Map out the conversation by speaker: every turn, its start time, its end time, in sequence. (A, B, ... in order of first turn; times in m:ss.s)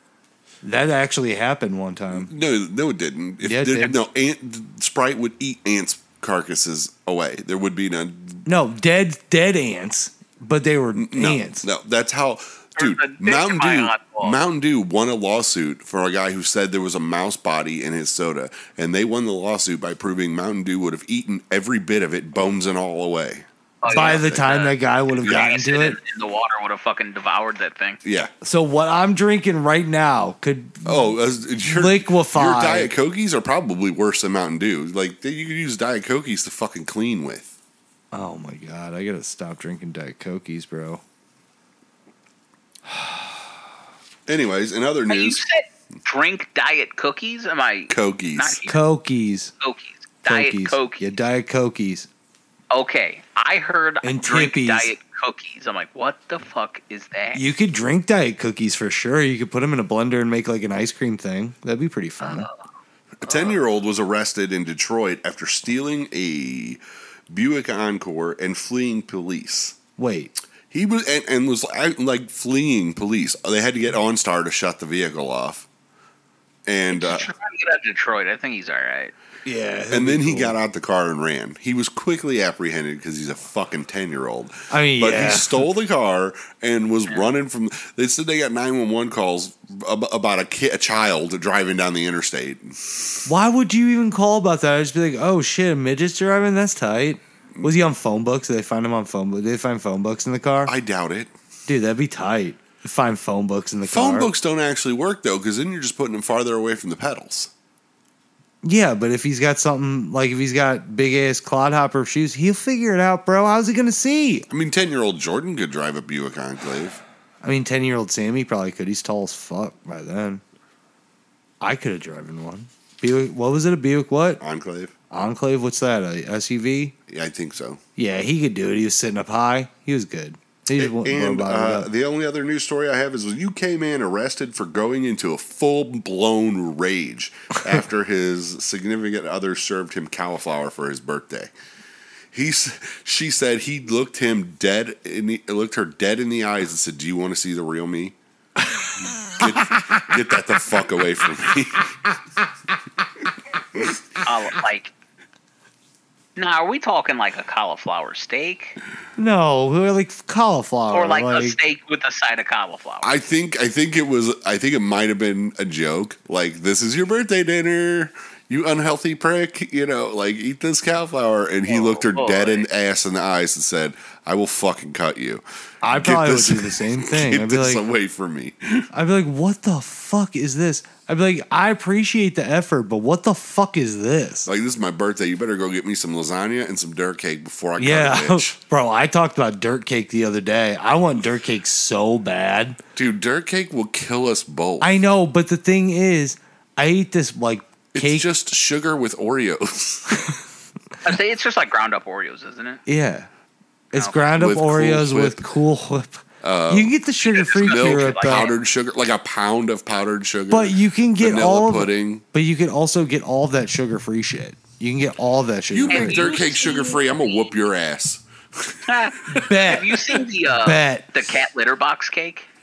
0:00.6-0:02.3 A
0:02.1-0:08.5 B
0:03.4-0:04.0 A
0:08.5-0:11.7 A
0:11.0-0:24.5 B
0:12.8-0:14.4 C
0:23.8-0:28.0 C
0:23.9-0:26.0 A
0:25.2-0:25.5 B
0:28.0-0:28.3 B
0:28.4-0:32.9 A
0:30.8-0:37.5 B
0:38.1-0:41.0 A
0:42.9-0:43.4 A
0:44.3-0:45.4 B
0:45.1-0:48.8 C
0:47.9-0:48.6 B
0:48.7-0:49.5 A
0:49.6-0:51.1 C
0:50.3-0:52.1 A
0:52.7-0:57.5 C
0:54.0-0:54.9 A
0:57.3-1:02.5 A
1:02.2-1:02.6 C
1:03.2-1:09.8 B
1:03.2-1:03.6 C
1:10.0-1:10.4 A
1:10.7-1:15.7 B
1:16.7-1:17.3 B
1:16.9-1:19.1 C
1:19.4-1:20.6 A
1:19.9-1:33.2 B
1:24.7-1:25.7 A
1:33.2-1:40.7 A
1:40.7-1:41.3 B
1:41.7-1:44.3 A
1:43.9-1:47.5 B
1:48.6-1:54.5 A
1:54.5-1:57.0 B
1:57.4-2:00.4 A
2:01.6-2:04.4 A
2:04.4-2:04.9 B
2:05.1-2:07.0 A
2:07.1-2:07.8 B
2:08.0-2:11.9 A
2:10.8-2:21.5 B
2:22.3-2:28.2 B
2:29.3-2:32.0 B
2:29.4-2:30.0 A
2:34.2-2:34.9 C
2:36.4-2:38.8 C
2:39.2-2:41.6 A
2:40.9-2:43.1 C
2:43.0-2:58.9 B
2:51.7-2:52.7 C
2:55.8-2:57.8 A
2:58.9-3:04.5 A
3:04.5-3:08.6 B
3:07.8-3:12.8 A
3:13.0-3:14.9 B
3:14.8-3:18.3 A
3:17.9-3:20.3 B
3:21.0-3:22.8 C
3:22.9-3:23.3 A
3:23.9-3:28.5 A
3:24.4-3:25.5 B
3:26.4-3:27.0 B
3:27.2-3:28.5 C
3:27.6-3:32.2 B
3:30.5-3:36.7 A
3:35.7-3:39.4 B
3:35.9-3:37.5 C
3:38.8-3:42.5 C
3:39.3-3:41.1 A